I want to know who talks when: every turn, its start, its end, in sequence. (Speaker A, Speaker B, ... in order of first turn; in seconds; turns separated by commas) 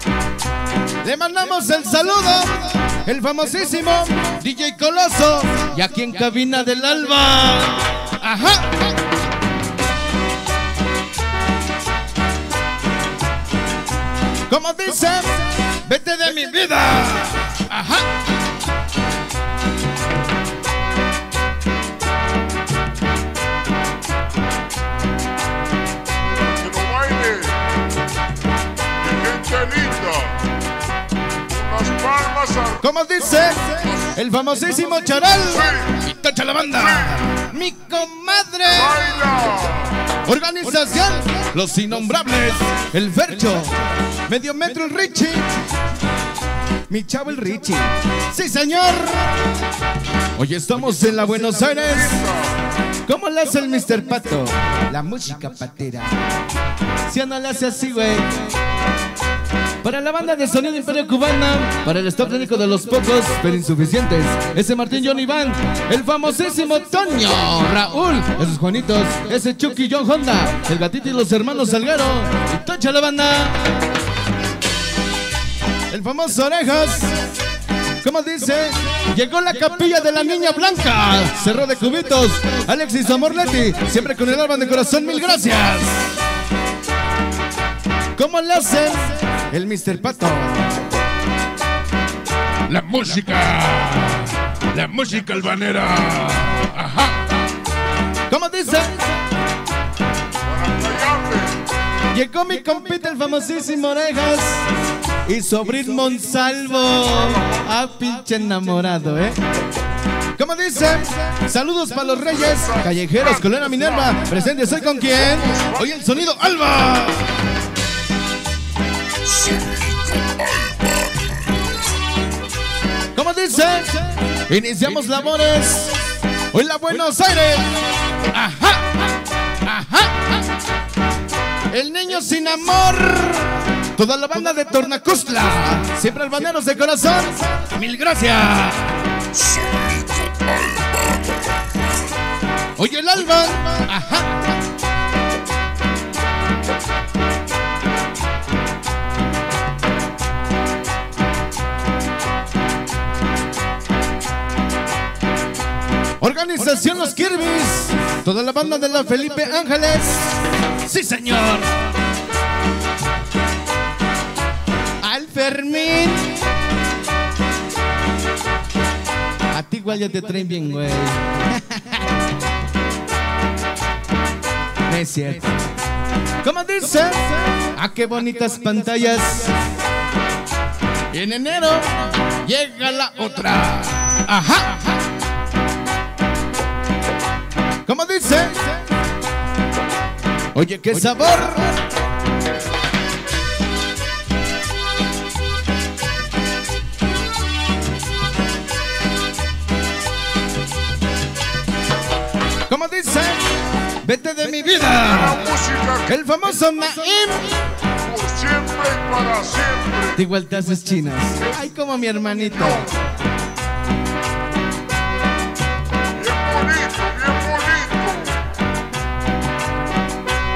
Speaker A: 1.0-8.9, Speaker A: 14.5-18.1, Speaker B: 26.5-27.7, Speaker B: 29.0-30.4, Speaker B: 31.5-32.8, Speaker A: 32.8-39.4, Speaker B: 38.9-40.0, Speaker A: 40.1-45.6, Speaker A: 46.9-49.5, Speaker A: 50.4-52.3, Speaker A: 53.0-56.3, Speaker A: 57.1-58.4, Speaker A: 59.8-73.7, Speaker A: 75.9-77.3, Speaker A: 78.0-86.1, Speaker A: 88.2-90.8, Speaker C: 92.7-97.2, Speaker A: 98.3-99.1, Speaker B: 100.4-101.6, Speaker A: 102.1-104.7, Speaker A: 105.2-109.4, Speaker A: 110.4-117.5, Speaker B: 120.2-121.0, Speaker A: 123.1-129.0, Speaker A: 129.7-130.4, Speaker A: 131.7-140.2, Speaker A: 142.8-144.4, Speaker A: 156.2-161.9, Speaker A: 165.0-166.6, Speaker A: 169.5-172.0, Speaker A: 174.9-175.6, Speaker A: 176.4-179.6, Speaker A: 181.1-184.9, Speaker A: 187.8-188.8, Speaker A: 190.5-191.8, Speaker A: 202.7-205.5, Speaker B: 205.1-206.1, Speaker A: 206.1-207.7, Speaker B: 207.8-210.2, Speaker A: 210.1-212.9, Speaker B: 216.2-218.4